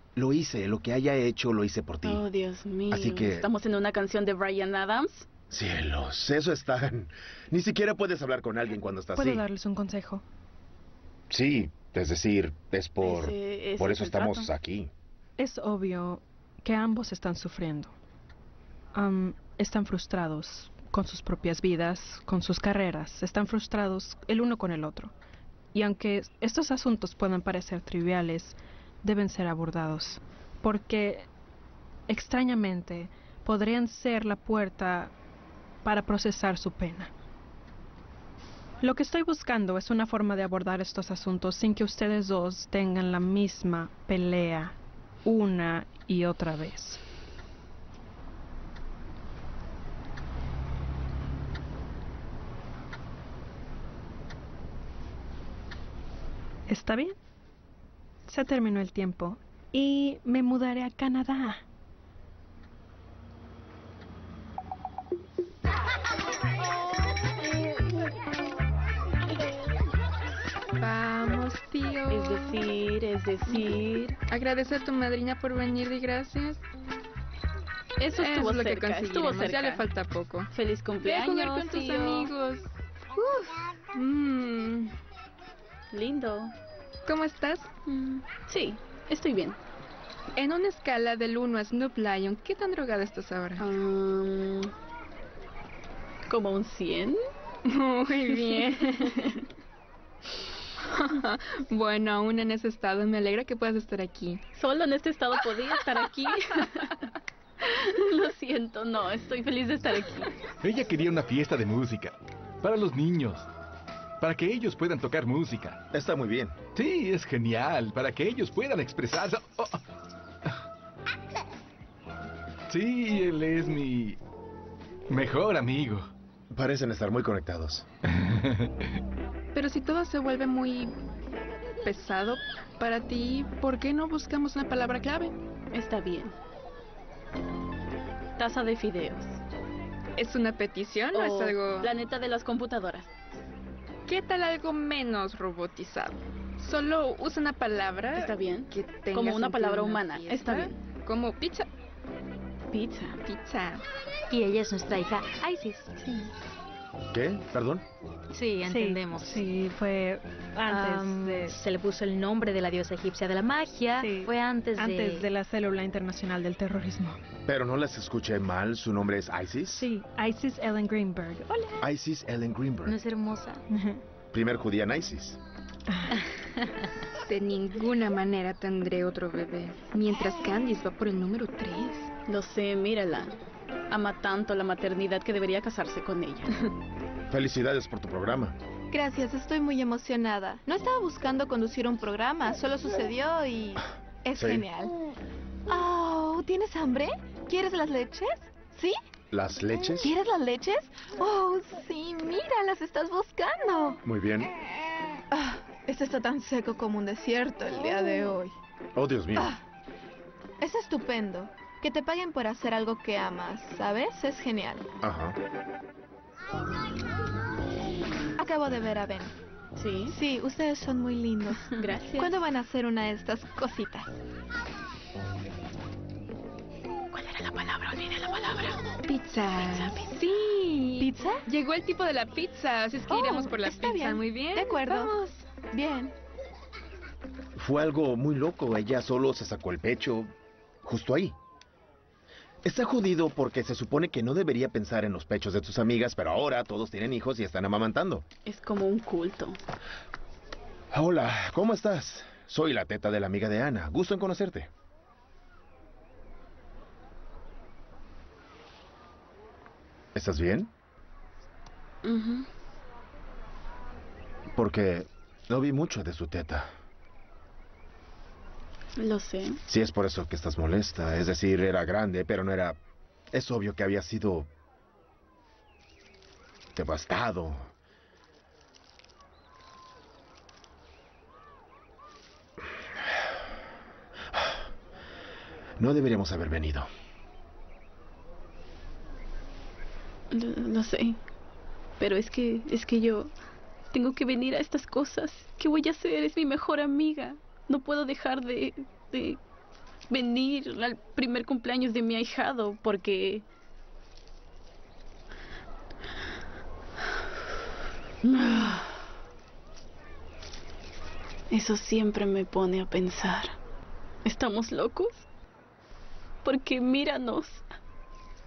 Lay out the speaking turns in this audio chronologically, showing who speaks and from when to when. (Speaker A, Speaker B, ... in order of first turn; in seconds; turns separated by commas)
Speaker A: 0.1-2.2, Speaker B: 2.0-5.3, Speaker A: 2.9-3.5, Speaker A: 5.5-9.4, Speaker C: 9.2-10.2, Speaker A: 11.3-14.9, Speaker B: 13.0-14.5, Speaker C: 15.4-17.9, Speaker C: 18.9-25.1, Speaker C: 25.7-31.3, Speaker C: 32.1-35.1, Speaker C: 35.8-37.1, Speaker C: 38.8-47.0, Speaker C: 56.7-57.1, Speaker C: 58.3-61.6, Speaker D: 70.8-72.6, Speaker B: 72.1-74.2, Speaker D: 73.5-76.6, Speaker D: 78.0-80.5, Speaker B: 78.0-79.8, Speaker B: 80.5-82.3, Speaker D: 81.0-84.9, Speaker B: 85.9-86.5, Speaker D: 87.0-87.7, Speaker B: 87.8-89.6, Speaker D: 90.3-93.6, Speaker B: 93.6-94.7, Speaker B: 96.3-97.2, Speaker D: 97.7-99.3, Speaker B: 98.5-99.4, Speaker D: 101.0-104.4, Speaker B: 104.5-106.9, Speaker D: 106.0-106.4, Speaker B: 107.6-110.3, Speaker E: 110.6-113.5, Speaker E: 114.2-115.8, Speaker A: 115.9-116.6, Speaker E: 116.7-119.8, Speaker E: 122.7-124.2, Speaker E: 125.1-126.1, Speaker A: 126.5-127.8, Speaker E: 128.2-128.7, Speaker D: 129.5-130.9, Speaker D: 131.8-135.3, Speaker B: 135.7-136.3, Speaker B: 138.4-139.4, Speaker D: 140.2-141.9, Speaker B: 141.1-143.1, Speaker D: 144.1-151.7, Speaker B: 148.1-150.8, Speaker B: 152.7-153.2, Speaker D: 153.2-153.8, Speaker F: 154.3-155.9, Speaker A: 157.1-157.8, Speaker F: 158.3-159.4, Speaker C: 158.6-161.6, Speaker F: 160.7-165.3, Speaker C: 164.0-167.2, Speaker A: 167.4-169.9, Speaker C: 169.7-171.7, Speaker A: 171.8-173.0, Speaker F: 172.8-173.6, Speaker C: 173.7-174.0, Speaker A: 174.3-175.4, Speaker D: 177.2-182.1, Speaker B: 182.3-183.3, Speaker B: 183.9-186.5, Speaker A: 187.3-188.6, Speaker G: 188.9-194.9, Speaker A: 194.3-194.7, Speaker G: 195.7-199.0, Speaker A: 199.3-200.1, Speaker G: 199.9-204.0, Speaker A: 204.0-204.5, Speaker G: 205.3-208.5, Speaker A: 208.9-209.5, Speaker G: 210.6-214.8, Speaker A: 215.0-215.4, Speaker G: 218.4-219.3, Speaker B: 219.8-220.2, Speaker G: 220.1-224.1, Speaker B: 221.8-222.3, Speaker B: 227.0-228.8, Speaker D: 229.1-235.0, Speaker B: 229.7-230.2, Speaker G: 233.1-236.1, Speaker A: 237.5-240.3, Speaker A: 240.8-241.3, Speaker A: 242.6-248.2, Speaker B: 248.4-249.6, Speaker A: 250.9-254.7, Speaker A: 260.1-260.7, Speaker B: 262.0-262.5, Speaker A: 264.5-266.7, Speaker B: 269.0-269.6, Speaker A: 269.7-272.8, Speaker A: 273.3-274.5, Speaker A: 276.7-277.7, Speaker A: 285.8-286.9, Speaker B: 290.3-291.2, Speaker B: 292.0-293.3, Speaker B: 293.9-299.4, Speaker B: 300.1-303.4, Speaker B: 308.2-309.0, Speaker B: 311.5-313.6, Speaker B: 314.2-315.3, Speaker B: 316.4-317.6